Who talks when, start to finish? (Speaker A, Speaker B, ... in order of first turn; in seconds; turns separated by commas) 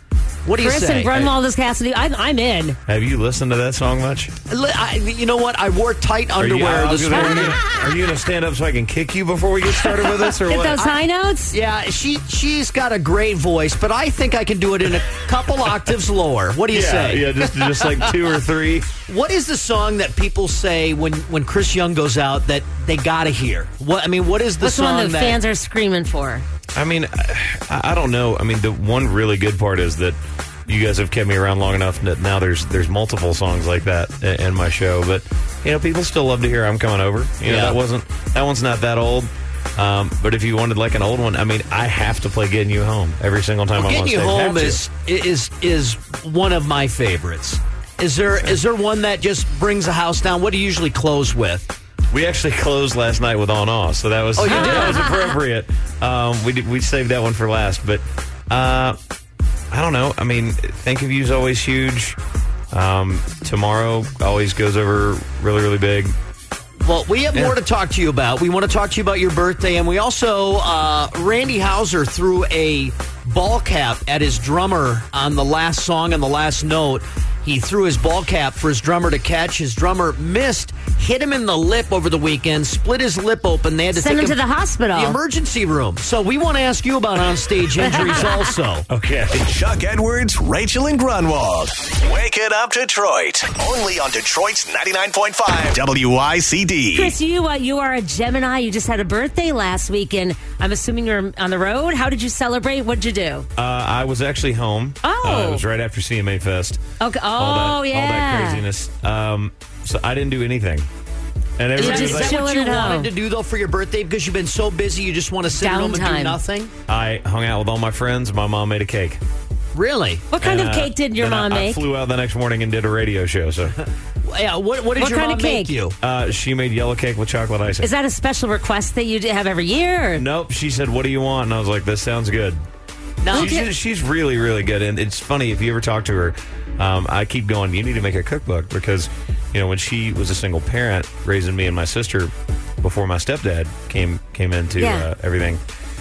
Speaker A: 0.5-1.1, Speaker B: 0.5-2.8, Speaker C: 2.9-4.3, Speaker A: 4.5-7.6, Speaker C: 6.4-10.8, Speaker B: 7.3-7.6, Speaker B: 10.4-11.6, Speaker A: 11.5-17.9, Speaker C: 16.7-18.9, Speaker A: 19.1-25.4, Speaker B: 24.6-26.4, Speaker C: 26.8-44.8, Speaker A: 37.5-37.8, Speaker A: 43.8-51.7, Speaker C: 52.1-59.0, Speaker A: 54.4-55.1, Speaker B: 54.5-55.2, Speaker C: 59.7-62.2, Speaker C: 62.7-66.1, Speaker A: 66.8-84.4, Speaker B: 83.9-85.2, Speaker A: 84.9-88.9, Speaker B: 87.8-88.5, Speaker C: 88.9-89.4, Speaker D: 89.3-97.2, Speaker B: 96.9-103.5, Speaker C: 103.6-106.8, Speaker B: 105.0-105.6, Speaker B: 107.0-108.6, Speaker C: 107.4-110.9, Speaker C: 111.6-112.4, Speaker A: 111.8-116.7, Speaker B: 111.8-113.1, Speaker B: 115.5-116.4, Speaker C: 116.9-119.2, Speaker A: 119.7-120.2, Speaker B: 120.3-121.8, Speaker C: 120.4-123.8, Speaker A: 124.2-126.0, Speaker B: 125.0-125.7, Speaker C: 126.0-127.9, Speaker B: 127.8-130.3, Speaker C: 130.2-132.6, Speaker A: 133.2-133.6, Speaker C: 133.3-145.6, Speaker B: 133.3-133.7, Speaker B: 144.8-145.1